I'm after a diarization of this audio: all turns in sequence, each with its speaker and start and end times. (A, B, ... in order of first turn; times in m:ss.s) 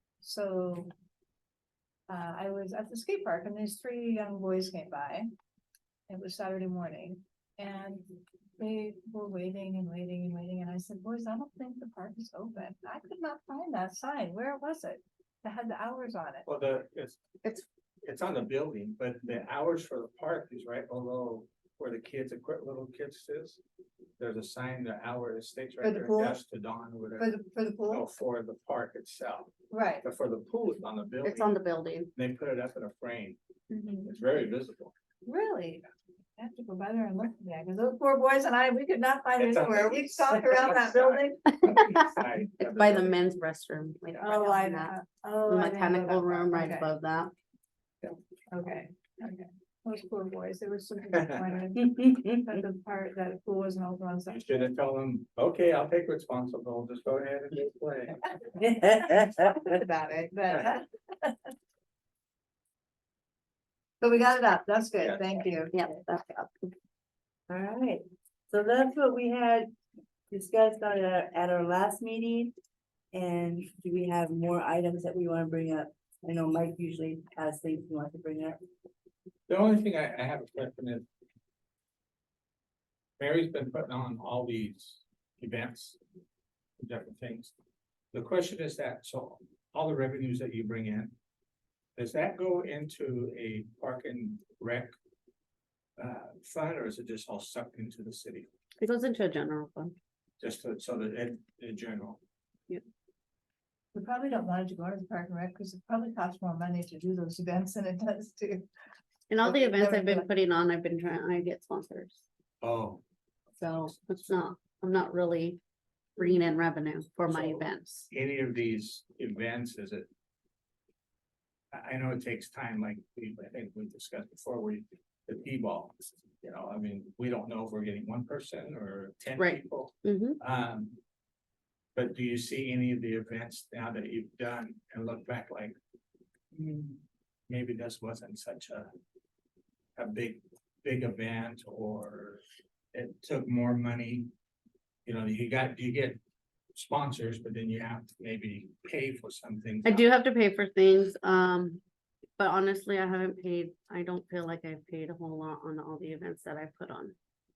0:00.2-0:00.9 A
0:02.1-0:05.3 A
0:06.1-0:08.0 A
0:08.6-0:16.5 A
0:16.4-0:17.4 B
0:18.0-0:23.6 B
0:24.2-0:27.3 B
0:25.8-0:26.4 A
0:27.2-0:28.0 A
0:27.9-0:31.5 B
0:29.7-0:30.0 A
0:31.2-0:32.1 C
0:32.2-0:33.4 B
0:33.7-0:34.1 A
0:34.0-0:34.9 B
0:35.2-0:41.8 A
0:39.4-0:43.2 B
0:42.6-0:45.0 C
0:44.2-0:46.9 A
0:45.5-0:47.3 C
0:48.5-0:54.4 A
0:51.8-0:52.6 D
0:54.3-0:58.3 B
0:58.6-0:59.6 D
0:59.3-1:01.5 A
1:04.0-1:05.8 A
1:05.7-1:06.7 C
1:07.5-1:09.7 D
1:10.3-1:12.5 D
1:13.1-1:18.6 D
1:19.5-1:21.1 B
1:23.2-1:26.0 B
1:26.8-1:27.5 B
1:28.1-1:31.1 B
1:32.0-1:34.9 B
1:36.0-1:38.5 B
1:38.8-1:39.9 C
1:40.4-1:42.2 B
1:43.9-1:48.7 A
1:49.3-1:52.2 C
1:49.4-1:50.2 A
1:52.6-1:53.0 B
1:53.6-1:55.6 C
1:53.6-1:54.4 B
1:56.2-1:58.1 C
1:57.3-2:00.1 B
2:01.7-2:11.0 B
2:09.4-2:10.4 C
2:12.0-2:15.8 B
2:16.6-2:16.9 B
2:17.5-2:18.9 B
2:20.0-2:22.4 B
2:22.9-2:24.3 B
2:25.1-2:26.2 B
2:26.8-2:30.1 B
2:29.8-2:31.8 C
2:32.4-2:37.2 C